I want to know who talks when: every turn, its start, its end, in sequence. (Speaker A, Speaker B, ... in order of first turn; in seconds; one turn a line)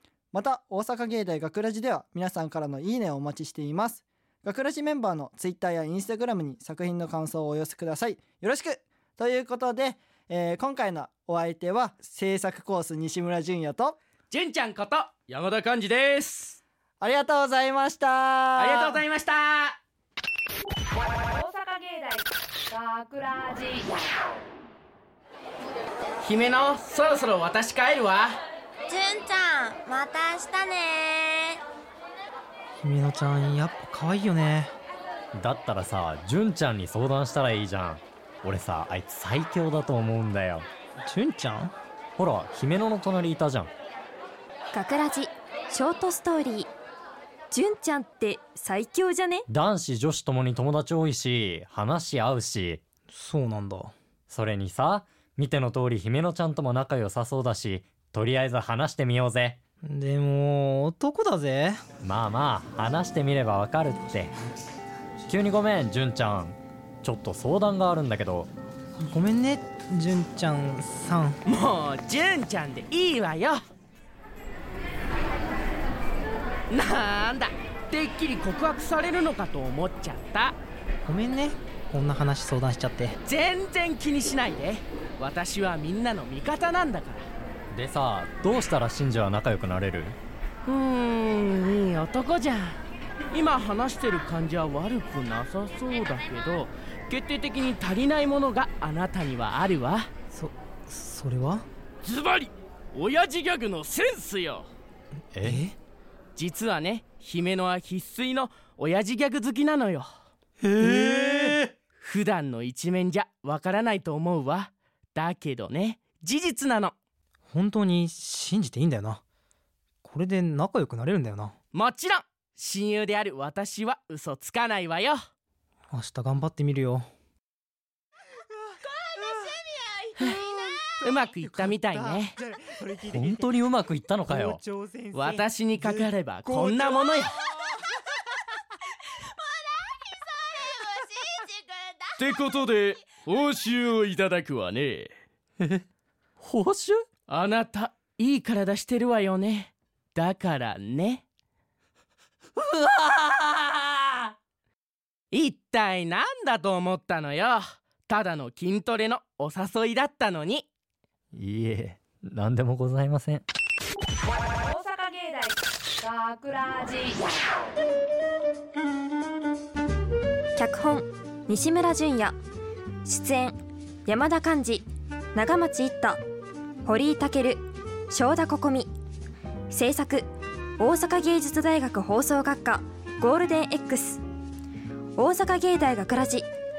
Speaker A: 0.3-14.0
Speaker B: 14.3-16.6
Speaker A: 17.0-19.0
Speaker B: 18.6-19.8
Speaker C: 21.3-24.0
Speaker B: 26.2-28.4
Speaker D: 28.9-31.6
Speaker E: 32.8-34.7
Speaker F: 35.4-40.7
Speaker E: 41.0-41.7
Speaker F: 42.2-43.7
Speaker G: 44.7-46.7
Speaker G: 47.5-49.5
Speaker F: 49.5-52.8
Speaker E: 53.1-53.9
Speaker F: 54.3-59.6
Speaker E: 59.8-61.8
Speaker F: 62.0-64.3
Speaker F: 65.3-68.5
Speaker E: 69.0-71.4
Speaker B: 71.5-73.6
Speaker B: 76.7-80.6
Speaker E: 81.0-83.2
Speaker B: 83.2-87.3
Speaker F: 87.7-90.2
Speaker B: 90.7-92.8
Speaker B: 93.3-100.1
Speaker E: 100.3-101.6
Speaker B: 102.0-104.7
Speaker F: 105.3-105.7
Speaker E: 105.4-105.7
Speaker B: 106.3-110.1
Speaker E: 110.7-111.3
Speaker F: 110.8-111.5
Speaker B: 110.8-116.9
Speaker E: 117.5-119.2
Speaker E: 120.0-121.5
Speaker B: 121.7-125.2
Speaker E: 125.9-127.1
Speaker A: 128.8-133.5
Speaker B: 130.2-130.4
Speaker B: 131.0-132.4
Speaker F: 133.1-134.6
Speaker A: 134.3-137.7
Speaker B: 135.1-137.4
Speaker D: 139.4-142.1
Speaker B: 142.2-145.1
Speaker F: 146.4-147.0
Speaker B: 147.3-151.2
Speaker B: 152.9-153.7
Speaker B: 155.3-160.7
Speaker F: 161.3-163.4
Speaker C: 164.6-167.3
Speaker G: 170.6-172.3
Speaker G: 173.1-173.5
Speaker G: 174.1-176.2
Speaker G: 176.8-178.9
Speaker G: 179.7-180.3
Speaker G: 180.8-184.2
Speaker G: 185.2-186.4